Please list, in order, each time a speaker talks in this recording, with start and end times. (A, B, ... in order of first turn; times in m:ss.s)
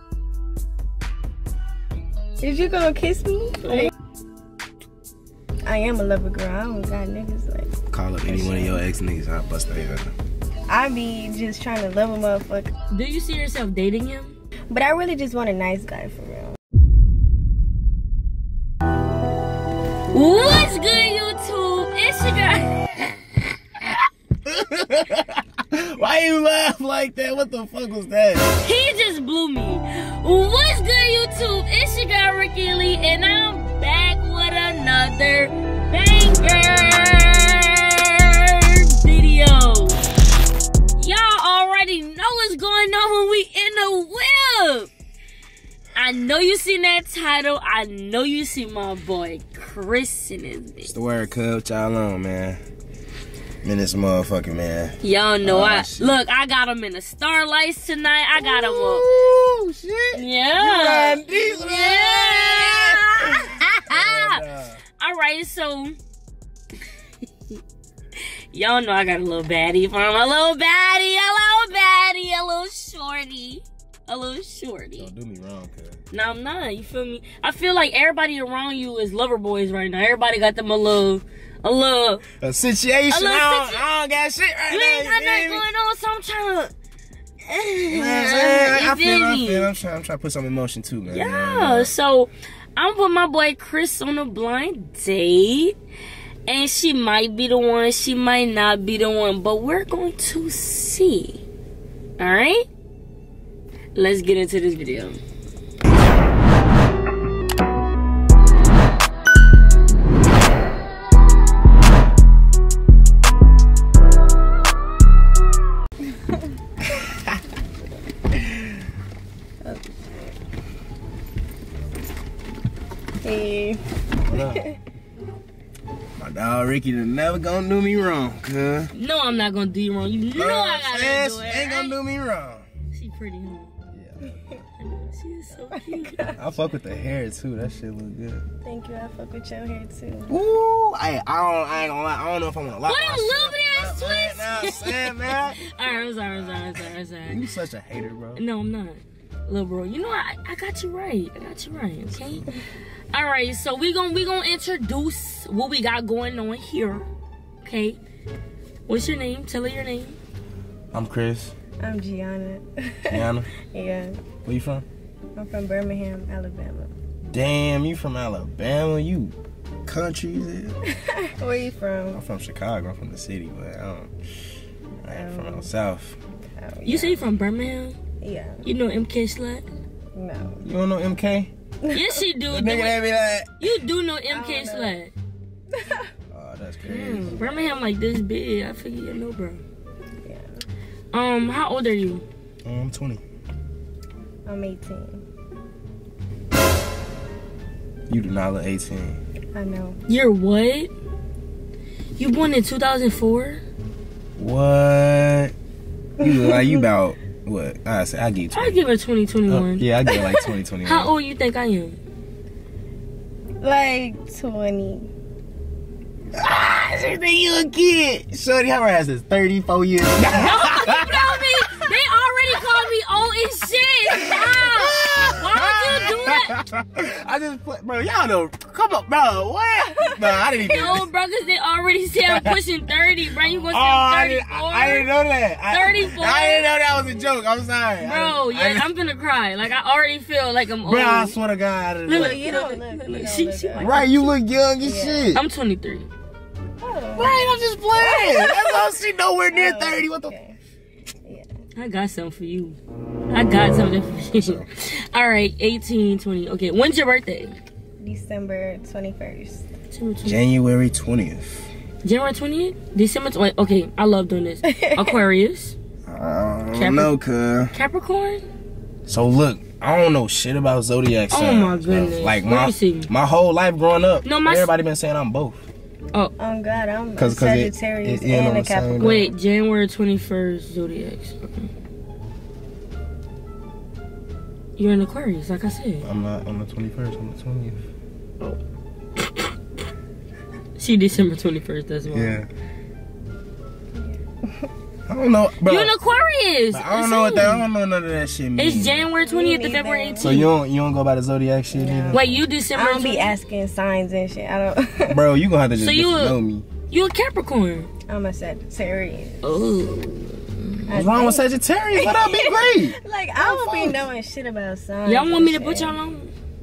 0:02.4-0:03.9 A
0:05.6-0:08.8 A
0:07.9-0:10.1 B
0:10.7-0:12.7 A
0:12.9-0:14.3 C
0:14.7-0:16.5 A
0:20.1-0:23.0 C
0:24.4-0:28.5 B
0:28.6-0:40.0 C
0:41.0-0:44.9 C
0:45.9-0:50.9 C
0:50.8-0:52.6 B
0:53.6-0:56.2 B
0:55.0-0:59.2 C
0:58.4-1:04.8 B
1:00.1-1:04.4 C
1:05.0-1:06.0 C
1:08.5-1:15.1 C
1:15.0-1:16.0 B
1:16.1-1:22.2 C
1:22.4-1:25.6 B
1:23.1-1:23.8 C
1:24.7-1:26.7 C
1:27.4-1:29.7 C
1:27.9-1:31.9 B
1:31.1-1:35.8 C
1:36.5-1:41.4 C
1:42.2-1:42.6 C
1:43.9-1:45.2 C
1:59.6-2:00.4 A
2:03.2-2:04.8 A
2:04.3-2:04.6 B
2:06.2-2:08.9 B
2:08.9-2:12.0 C
2:10.4-2:12.6 B
2:12.9-2:13.7 C
2:13.9-2:14.6 B
2:14.8-2:16.3 C
2:15.7-2:16.4 A
2:16.4-2:18.4 B
2:18.6-2:20.4 A
2:20.3-2:25.6 B
2:22.8-2:27.4 C
2:26.4-2:28.4 B
2:28.4-2:32.4 C
2:33.1-2:37.0 C
2:37.6-2:38.0 C
2:38.9-2:40.1 C
2:40.9-2:41.5 B
2:41.8-2:44.2 A
2:43.1-2:43.5 B
2:44.4-2:44.8 B
2:45.4-2:46.9 A
2:47.3-2:49.3 B
2:49.8-2:50.8 B
2:50.9-2:52.2 A
2:52.1-2:54.1 B
2:55.0-2:56.2 B
2:55.1-2:55.7 A
2:56.6-2:57.2 A
2:56.8-2:58.0 C
2:58.2-2:58.7 A
2:58.6-2:59.6 C
3:00.1-3:00.6 A
3:00.6-3:01.5 B
3:01.9-3:03.0 C
3:02.5-3:03.5 B
3:03.6-3:05.1 C
3:04.3-3:05.0 A
3:05.7-3:06.1 A
3:06.3-3:07.4 B
3:06.8-3:09.6 C
3:07.2-3:07.8 A
3:10.2-3:10.5 A
3:11.1-3:12.2 C
3:12.6-3:13.2 B
3:14.4-3:15.2 A
3:18.1-3:19.2 B
3:19.5-3:20.0 A
3:20.1-3:20.9 C
3:22.2-3:23.6 C
3:24.4-3:25.5 B
3:26.2-3:28.8 B
3:26.2-3:26.8 A
3:28.5-3:29.9 C
3:29.5-3:31.1 B
3:30.8-3:32.0 C
3:33.6-3:35.1 A
3:36.3-3:41.6 B
3:40.3-3:46.5 C
3:44.1-3:51.1 B
3:50.6-3:55.1 C
3:52.3-3:52.6 B
3:53.7-3:58.9 B
3:55.7-3:56.7 C
3:58.0-4:01.3 C
4:00.8-4:02.5 B
4:02.1-4:04.1 C
4:02.1-4:04.0 A
4:03.8-4:05.4 B
4:04.8-4:05.3 A
4:05.3-4:06.1 C
4:06.8-4:07.4 A
4:07.2-4:10.3 B
4:07.9-4:08.9 A
4:09.5-4:10.6 A
4:11.8-4:12.8 C
4:13.3-4:17.6 C
4:14.4-4:14.6 B
4:18.0-4:19.7 A
4:19.9-4:20.4 C
4:20.2-4:21.7 B
4:22.0-4:25.7 C
4:24.6-4:25.2 A
4:26.0-4:27.7 B
4:26.7-4:27.1 C
4:27.7-4:28.4 C
4:29.1-4:35.6 B
4:31.3-4:33.1 C
4:34.2-4:34.7 C
4:36.4-4:39.3 A
4:37.2-4:39.2 B
4:39.0-4:41.7 C
4:44.8-4:46.0 C
4:46.0-4:47.8 B
4:49.2-4:49.5 C
4:50.8-4:52.4 C
4:52.1-4:52.5 B
4:54.0-4:54.7 A
4:55.1-4:55.9 B
4:55.6-4:57.6 C
4:56.7-4:59.1 B
4:58.6-5:00.5 C
4:59.2-5:00.4 A
5:00.2-5:02.2 B
5:01.7-5:05.2 A
5:02.1-5:03.3 C
5:05.1-5:06.7 B
5:05.8-5:06.4 C
5:06.9-5:07.9 C
5:08.1-5:09.8 A
5:09.4-5:10.8 C
5:10.9-5:11.4 A
5:10.9-5:14.0 B
5:12.0-5:16.0 A
5:15.0-5:16.3 C